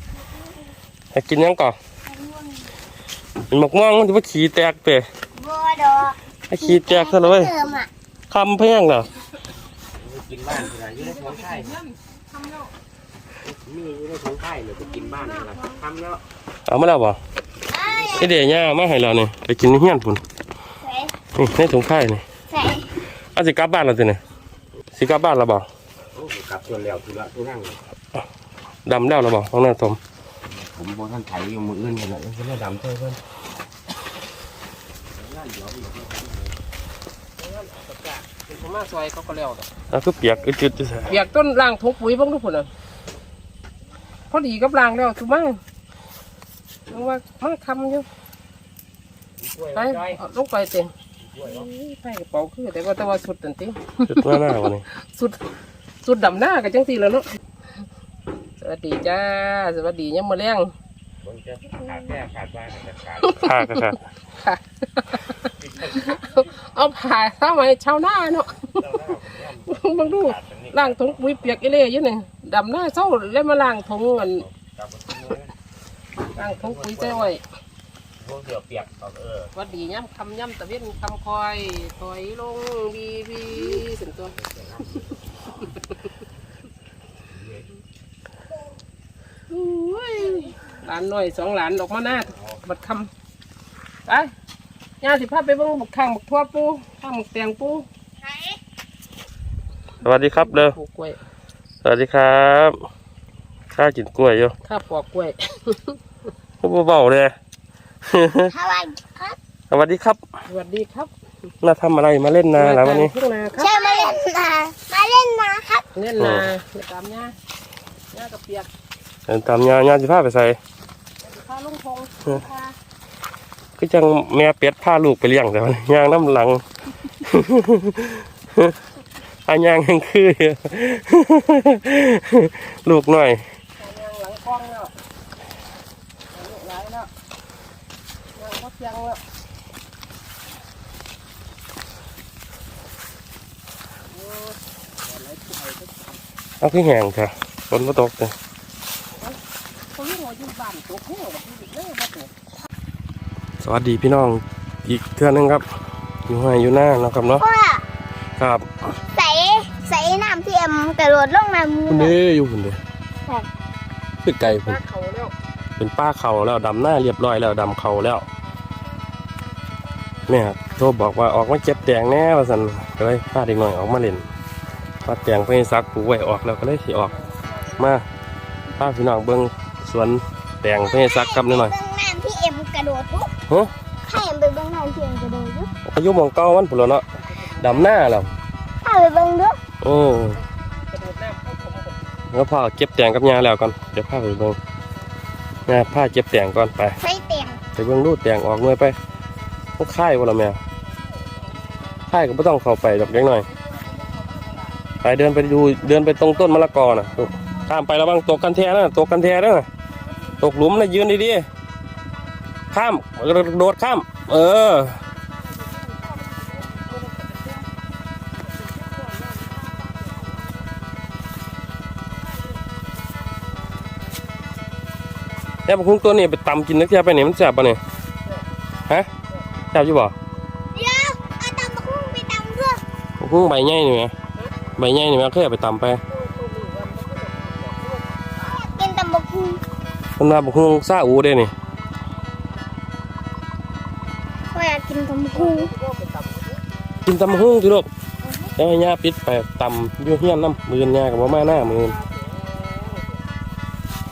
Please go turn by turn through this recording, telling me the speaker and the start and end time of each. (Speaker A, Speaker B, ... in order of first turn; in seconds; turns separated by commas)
Speaker A: 1.1-1.8, Speaker B: 2.2-2.5, Speaker A: 3.5-5.0, Speaker B: 5.4-7.9, Speaker A: 6.5-7.5, Speaker A: 8.3-9.1, Speaker C: 10.0-11.7, Speaker D: 11.0-12.7, Speaker C: 13.4-16.2, Speaker D: 14.9-15.8, Speaker A: 16.7-17.2, Speaker B: 17.7-18.2, Speaker A: 18.0-20.2, Speaker B: 20.8-21.1, Speaker A: 21.3-22.2, Speaker B: 22.5-22.9, Speaker A: 23.3-24.2, Speaker A: 24.9-25.7, Speaker C: 26.1-27.8, Speaker A: 28.9-30.0, Speaker C: 30.5-33.2, Speaker C: 35.1-36.5, Speaker D: 37.4-39.7, Speaker A: 39.9-41.1, Speaker D: 41.1-42.7, Speaker D: 44.3-45.6, Speaker D: 46.9-48.0, Speaker C: 49.4-50.2, Speaker D: 49.7-50.9, Speaker C: 51.3-51.6, Speaker D: 51.4-55.4, Speaker A: 54.1-54.8, Speaker D: 56.0-57.2, Speaker D: 58.6-60.7, Speaker C: 61.2-63.3, Speaker D: 61.8-62.2, Speaker D: 63.2-68.9, Speaker A: 63.4-64.0, Speaker C: 65.6-66.1, Speaker C: 68.7-70.8, Speaker D: 69.6-74.5, Speaker C: 74.5-75.5, Speaker D: 76.3-77.4, Speaker C: 76.4-77.3, Speaker C: 78.2-79.5, Speaker D: 79.5-84.3, Speaker C: 84.6-85.2, Speaker D: 85.6-85.9, Speaker D: 89.5-93.1, Speaker D: 94.1-94.3, Speaker D: 95.0-97.8, Speaker A: 100.0-100.8, Speaker D: 100.0-101.2, Speaker A: 101.8-102.8, Speaker A: 103.7-104.5, Speaker D: 104.6-106.0, Speaker A: 106.6-107.3, Speaker A: 108.0-108.5, Speaker B: 108.5-109.3, Speaker A: 109.7-110.2, Speaker D: 110.5-111.1, Speaker A: 111.6-113.1, Speaker D: 112.5-114.1, Speaker B: 113.5-115.8, Speaker D: 115.9-117.3, Speaker A: 116.2-116.5, Speaker D: 118.1-118.7, Speaker A: 119.3-120.6, Speaker D: 121.2-122.8, Speaker A: 123.8-128.7, Speaker A: 129.4-133.4, Speaker D: 133.8-134.9, Speaker D: 136.3-137.1, Speaker D: 138.3-139.2, Speaker D: 144.1-146.2, Speaker A: 146.6-148.3, Speaker D: 149.1-149.4, Speaker D: 149.9-152.3, Speaker A: 153.6-155.6, Speaker A: 156.3-157.4, Speaker B: 157.4-157.8, Speaker A: 158.4-158.9, Speaker B: 159.1-162.1, Speaker A: 161.9-162.8, Speaker A: 164.2-164.8, Speaker D: 164.4-165.3, Speaker A: 165.8-168.2, Speaker A: 170.3-174.2, Speaker A: 175.0-177.1, Speaker D: 177.1-177.7, Speaker A: 177.8-178.1, Speaker A: 178.8-181.7, Speaker B: 180.8-183.3, Speaker B: 184.0-185.7, Speaker A: 185.8-187.1, Speaker D: 187.2-188.0, Speaker A: 187.6-188.3, Speaker B: 188.8-189.6, Speaker A: 189.8-190.4, Speaker D: 190.9-192.0, Speaker A: 192.3-194.6, Speaker A: 195.7-197.0, Speaker B: 197.0-197.6, Speaker A: 197.7-198.9, Speaker A: 199.8-200.6, Speaker A: 202.1-203.5, Speaker D: 203.5-204.8, Speaker A: 205.0-209.7, Speaker A: 210.4-211.5, Speaker A: 212.7-215.0, Speaker D: 215.6-217.7, Speaker D: 218.6-220.4, Speaker A: 225.7-227.8, Speaker A: 229.7-230.1, Speaker B: 230.7-232.8, Speaker A: 233.2-234.1, Speaker A: 234.8-236.0, Speaker D: 236.1-238.1, Speaker B: 238.4-239.6, Speaker A: 240.2-241.5, Speaker B: 244.5-245.7, Speaker D: 245.3-246.6, Speaker A: 247.0-247.9, Speaker A: 248.6-251.9, Speaker D: 251.4-253.2